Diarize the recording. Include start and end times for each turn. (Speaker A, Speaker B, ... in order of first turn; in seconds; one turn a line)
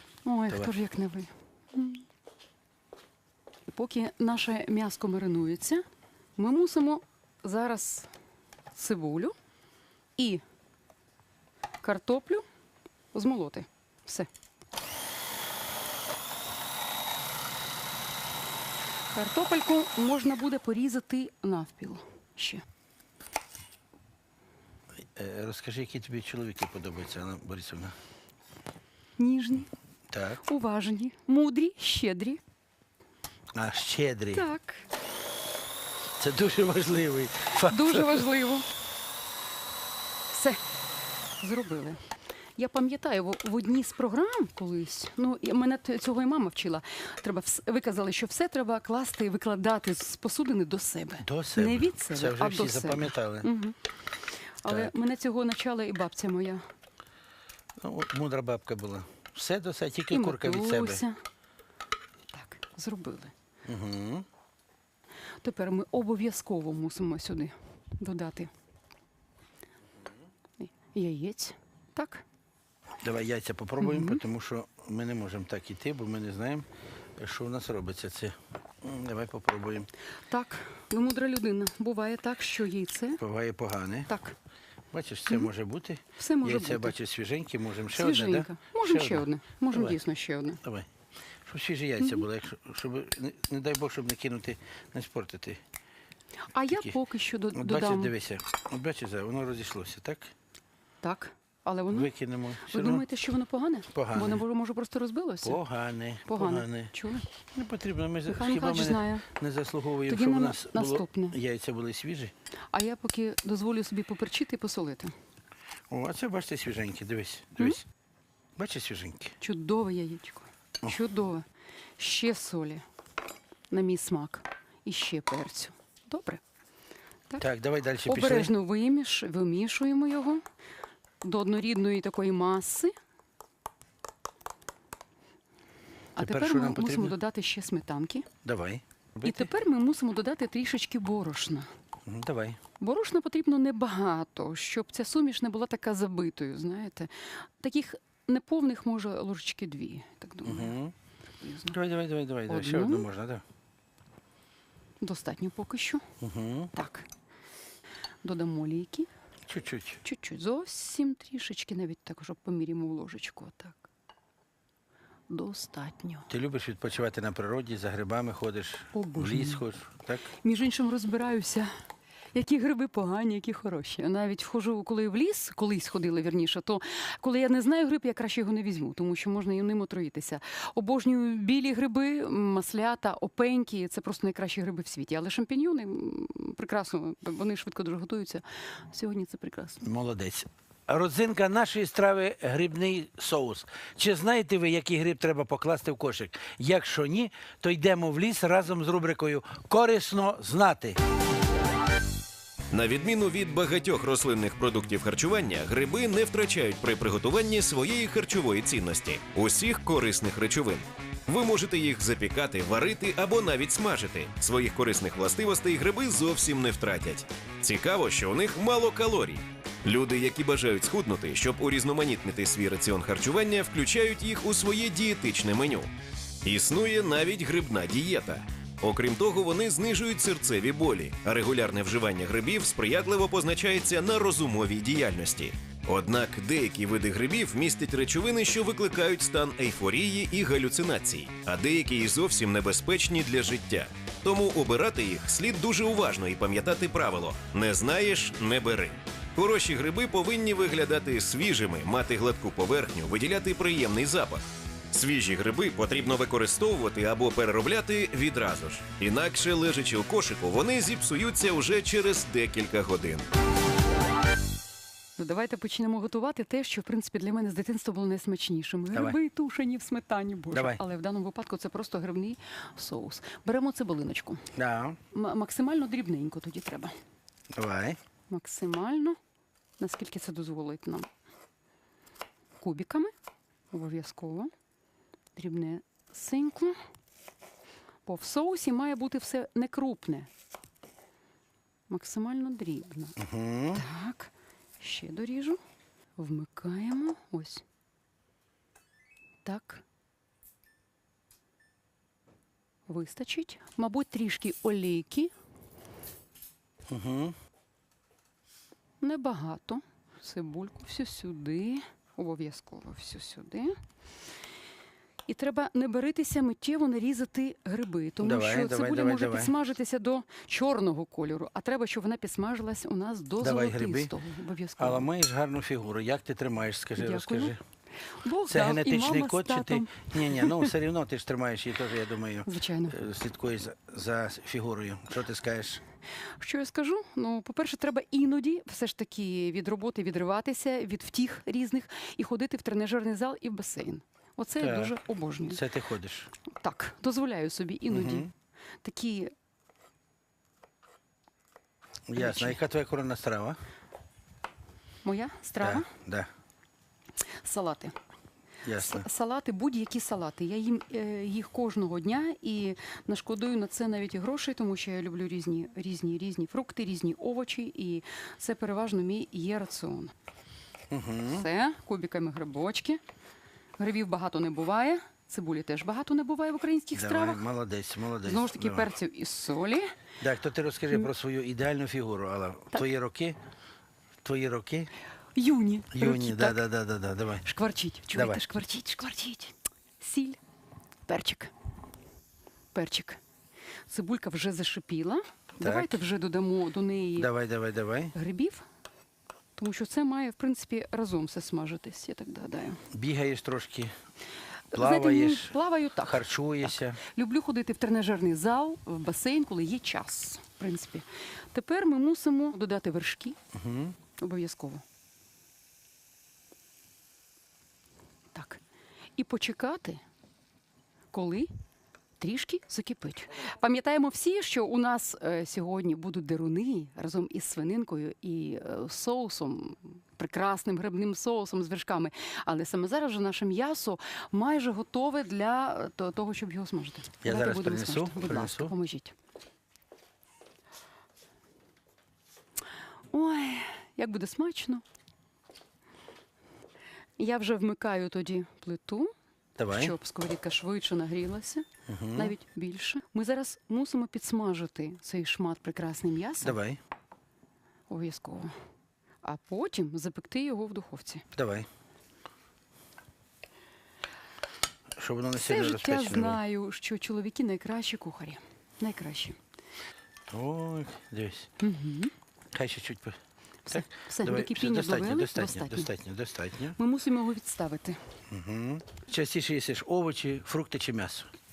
Speaker A: 0.2-2.0
Speaker A: 3.7-5.8
Speaker A: 6.4-8.1
Speaker A: 8.7-9.3
Speaker A: 10.2-10.4
Speaker A: 11.8-12.4
Speaker A: 13.1-14.3
Speaker A: 19.1-22.6
Speaker B: 25.1-27.9
Speaker A: 29.2-29.7
Speaker B: 30.1-30.4
Speaker A: 30.4-32.4
Speaker B: 33.5-34.5
Speaker A: 34.3-34.9
Speaker B: 36.2-38.3
Speaker A: 37.7-38.6
Speaker A: 40.3-40.6
Speaker A: 41.4-42.0
Speaker A: 42.6-53.8
Speaker B: 51.2-53.5
Speaker A: 54.6-56.6
Speaker B: 54.6-54.9
Speaker B: 57.8-61.0
Speaker A: 60.1-61.2
Speaker A: 62.3-63.3
Speaker B: 63.6-64.2
Speaker A: 65.4-68.5
Speaker A: 70.6-72.2
Speaker B: 73.0-79.9
Speaker A: 73.8-74.2
Speaker A: 80.3-83.2
Speaker B: 83.2-84.1
Speaker A: 84.1-84.3
Speaker B: 84.9-90.0
Speaker A: 86.2-87.0
Speaker A: 87.9-90.6
Speaker B: 90.6-90.9
Speaker B: 91.4-95.6
Speaker A: 96.5-98.1
Speaker B: 97.5-100.3
Speaker A: 101.0-102.1
Speaker B: 101.9-103.0
Speaker A: 102.6-105.6
Speaker B: 103.9-104.4
Speaker B: 105.4-112.3
Speaker A: 106.3-107.3
Speaker A: 108.3-109.3
Speaker A: 110.1-111.4
Speaker A: 112.7-115.1
Speaker B: 115.9-117.8
Speaker B: 118.5-119.3
Speaker A: 119.4-121.5
Speaker A: 122.0-122.8
Speaker A: 123.7-126.4
Speaker B: 127.4-128.5
Speaker A: 128.1-130.4
Speaker A: 131.2-132.9
Speaker A: 136.2-138.3
Speaker B: 136.2-137.2
Speaker B: 138.4-139.5
Speaker A: 139.2-141.7
Speaker B: 142.1-142.6
Speaker A: 142.8-150.8
Speaker B: 150.4-150.9
Speaker A: 151.4-151.8
Speaker B: 151.7-153.4
Speaker A: 152.5-153.1
Speaker A: 155.0-156.0
Speaker B: 156.2-156.7
Speaker A: 156.7-157.1
Speaker A: 158.2-159.1
Speaker B: 159.4-160.0
Speaker A: 160.0-163.8
Speaker A: 165.3-166.3
Speaker B: 166.3-170.3
Speaker A: 168.9-169.6
Speaker A: 170.4-171.7
Speaker A: 172.3-189.8
Speaker B: 189.8-201.0
Speaker C: 202.7-225.9
Speaker C: 226.4-263.3
Speaker A: 265.2-274.5
Speaker B: 270.5-270.8
Speaker B: 274.5-275.0
Speaker A: 275.1-276.9
Speaker B: 277.5-278.0
Speaker A: 278.3-279.2
Speaker A: 279.8-281.1
Speaker A: 282.6-283.1
Speaker A: 283.7-284.5
Speaker A: 285.4-286.8
Speaker A: 288.1-290.3
Speaker A: 291.9-293.2
Speaker B: 293.2-293.8
Speaker A: 293.7-295.6
Speaker A: 296.2-297.6
Speaker A: 299.4-299.8
Speaker A: 302.9-305.3
Speaker B: 306.9-307.4
Speaker A: 309.0-313.8
Speaker A: 315.3-325.1
Speaker B: 318.2-319.5
Speaker B: 323.4-324.1
Speaker B: 324.8-327.6
Speaker A: 327.0-327.5
Speaker A: 328.2-330.7
Speaker B: 328.5-335.8
Speaker A: 332.4-333.0
Speaker A: 336.4-345.6
Speaker B: 344.6-344.9
Speaker B: 345.5-346.3
Speaker A: 346.4-348.3
Speaker B: 347.9-348.3
Speaker A: 348.8-349.3
Speaker B: 352.1-353.6
Speaker A: 352.1-352.6
Speaker A: 355.0-355.9
Speaker B: 355.6-356.3
Speaker A: 357.4-357.9
Speaker B: 358.6-359.1
Speaker A: 358.8-370.1
Speaker B: 370.9-371.5
Speaker A: 371.3-373.0
Speaker A: 373.8-377.4
Speaker B: 376.9-378.9
Speaker A: 378.2-379.9
Speaker B: 380.2-383.4
Speaker B: 384.2-384.9
Speaker A: 385.4-386.6
Speaker B: 385.9-387.4
Speaker A: 387.4-390.4
Speaker B: 388.1-388.4
Speaker A: 391.1-391.5
Speaker A: 392.7-393.2
Speaker A: 393.9-397.3
Speaker B: 395.6-396.0
Speaker B: 397.2-398.1
Speaker A: 398.1-398.6
Speaker A: 399.6-402.8
Speaker B: 402.9-403.9
Speaker A: 404.7-406.2
Speaker B: 404.7-407.0
Speaker A: 407.0-413.4
Speaker B: 413.5-413.9
Speaker A: 414.2-414.8
Speaker A: 418.3-418.6
Speaker A: 419.2-420.0
Speaker A: 421.1-421.5
Speaker A: 422.2-439.1
Speaker B: 437.2-438.7
Speaker A: 443.1-444.8
Speaker A: 447.2-449.1
Speaker B: 449.6-449.9
Speaker A: 449.7-456.6
Speaker B: 451.9-452.4
Speaker B: 456.4-456.8
Speaker A: 457.9-458.5
Speaker A: 459.2-461.2
Speaker B: 461.3-461.7
Speaker B: 465.0-466.4
Speaker A: 465.3-469.4
Speaker B: 470.3-471.5
Speaker A: 471.6-472.1
Speaker B: 472.5-473.2
Speaker A: 473.6-475.9
Speaker B: 473.7-476.8
Speaker A: 476.8-478.0
Speaker B: 478.3-481.3